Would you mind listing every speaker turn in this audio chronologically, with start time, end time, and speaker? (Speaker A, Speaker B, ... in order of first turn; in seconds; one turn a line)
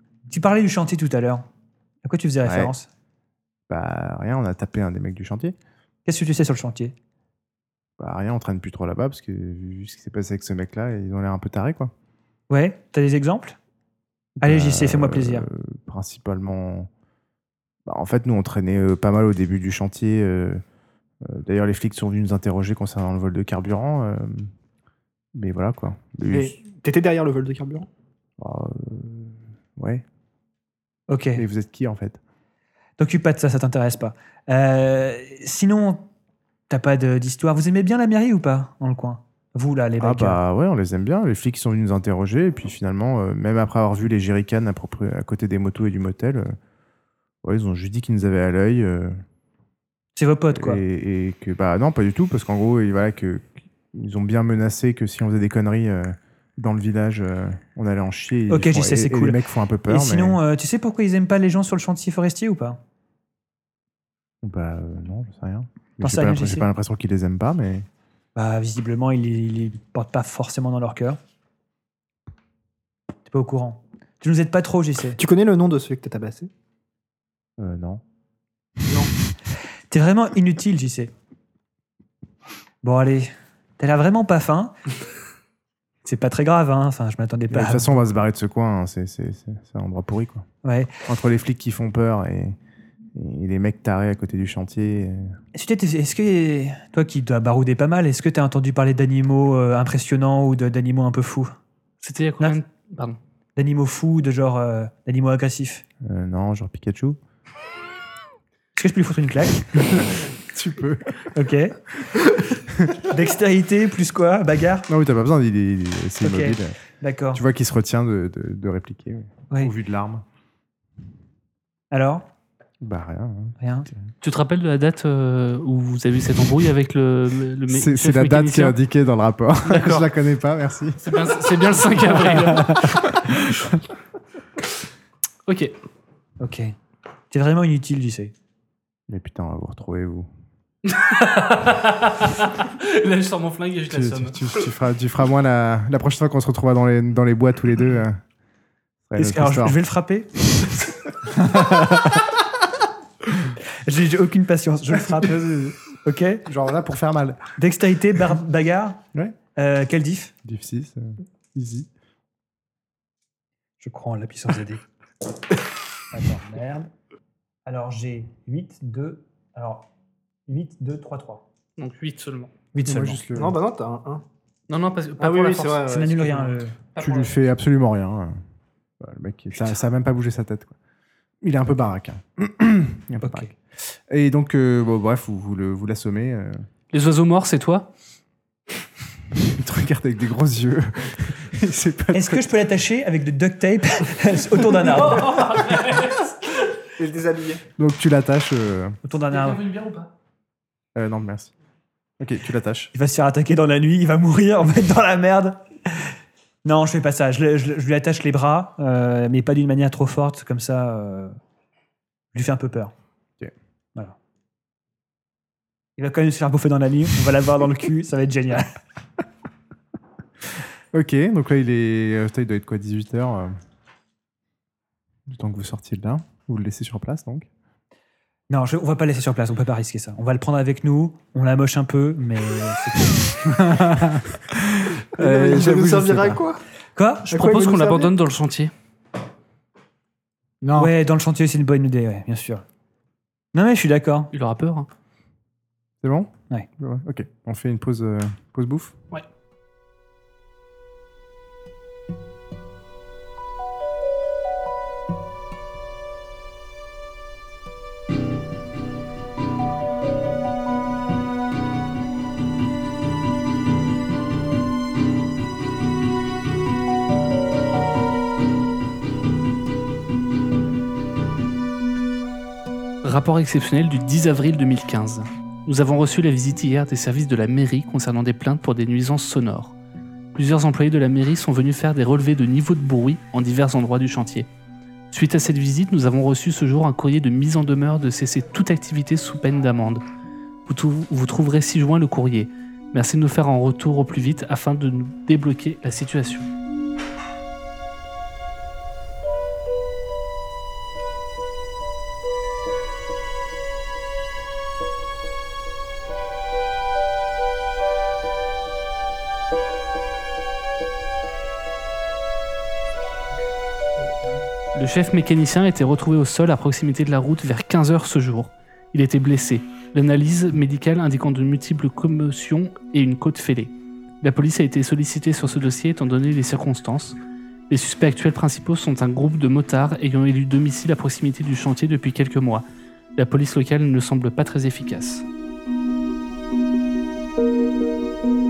Speaker A: 0.3-1.4
Speaker A: 2.0-2.9
Speaker B: 2.4-2.7
Speaker B: 3.7-5.5
Speaker A: 6.0-6.9
Speaker B: 8.0-11.9
Speaker A: 12.5-13.6
Speaker B: 14.4-16.9
Speaker A: 14.4-15.5
Speaker B: 17.9-20.6
Speaker B: 21.2-24.5
Speaker B: 25.3-26.5
Speaker C: 26.3-27.9
Speaker B: 28.4-30.0
Speaker A: 31.1-31.4
Speaker B: 31.4-32.2
Speaker A: 33.0-36.1
Speaker A: 36.7-40.4
Speaker B: 40.0-46.5
Speaker B: 47.4-49.1
Speaker A: 50.1-50.8
Speaker B: 50.5-60.4
Speaker A: 58.5-62.8
Speaker B: 64.4-67.8
Speaker A: 66.0-66.7
Speaker A: 68.3-71.2
Speaker A: 73.2-75.2
Speaker C: 75.2-76.5
Speaker B: 77.6-78.0
Speaker A: 79.9-81.1
Speaker A: 82.8-84.7
Speaker A: 86.0-87.9
Speaker B: 87.5-90.5
Speaker A: 90.6-90.9
Speaker B: 91.1-92.5
Speaker B: 93.1-95.3
Speaker A: 95.5-101.5
Speaker D: 102.0-103.2
Speaker A: 103.5-105.8
Speaker B: 106.0-107.2
Speaker A: 108.8-110.0
Speaker B: 109.9-111.3
Speaker A: 111.3-111.9
Speaker B: 112.7-113.0
Speaker A: 113.0-114.9
Speaker B: 114.9-116.7
Speaker A: 116.2-117.4
Speaker B: 117.3-120.2
Speaker A: 121.9-122.2
Speaker B: 122.8-123.5
Speaker A: 123.6-123.9
Speaker D: 124.2-128.8
Speaker B: 127.7-131.3
Speaker D: 129.7-130.1
Speaker D: 131.0-133.0
Speaker B: 132.3-132.9
Speaker D: 135.5-135.7
Speaker A: 136.4-136.7
Speaker A: 137.3-138.3
Speaker B: 139.1-140.3
Speaker D: 140.8-144.4
Speaker B: 143.9-148.2
Speaker B: 149.1-149.8
Speaker A: 149.2-150.8
Speaker A: 151.4-152.2
Speaker B: 151.5-152.0
Speaker A: 153.8-156.4
Speaker B: 156.4-157.5
Speaker A: 157.6-159.0
Speaker A: 159.5-160.3
Speaker B: 160.4-161.9
Speaker A: 163.8-164.8
Speaker A: 166.1-166.9
Speaker A: 167.6-169.9
Speaker A: 170.5-171.4
Speaker D: 171.8-172.5
Speaker A: 172.7-173.2
Speaker B: 172.8-173.6
Speaker C: 173.3-174.2
Speaker D: 174.7-175.9
Speaker C: 175.2-176.5
Speaker A: 175.8-176.8
Speaker D: 176.9-177.4
Speaker B: 177.0-178.4
Speaker B: 179.0-180.7
Speaker B: 181.4-186.6
Speaker A: 183.2-183.5
Speaker D: 186.9-187.9
Speaker B: 189.3-192.5
Speaker A: 192.1-195.6
Speaker D: 194.9-196.6
Speaker C: 197.0-197.6
Speaker B: 197.8-199.0
Speaker A: 199.0-199.6
Speaker D: 199.3-200.1
Speaker B: 200.9-201.5
Speaker B: 202.2-202.9
Speaker A: 202.9-206.1
Speaker A: 206.6-211.3
Speaker A: 212.3-212.9
Speaker A: 216.0-218.8
Speaker B: 220.9-223.5
Speaker B: 225.3-227.5
Speaker A: 228.5-233.7
Speaker E: 233.5-236.4
Speaker C: 235.2-236.6
Speaker A: 236.9-237.4
Speaker D: 237.3-238.7
Speaker C: 237.3-238.1
Speaker E: 240.6-240.9
Speaker A: 240.8-242.6
Speaker A: 243.5-244.3
Speaker D: 244.3-244.9
Speaker B: 246.0-248.9
Speaker D: 273.0-279.7
Speaker D: 280.3-284.5
Speaker D: 285.1-290.0
Speaker D: 290.6-296.5
Speaker D: 314.7-327.1
Speaker D: 327.7-332.6
Speaker D: 333.2-335.2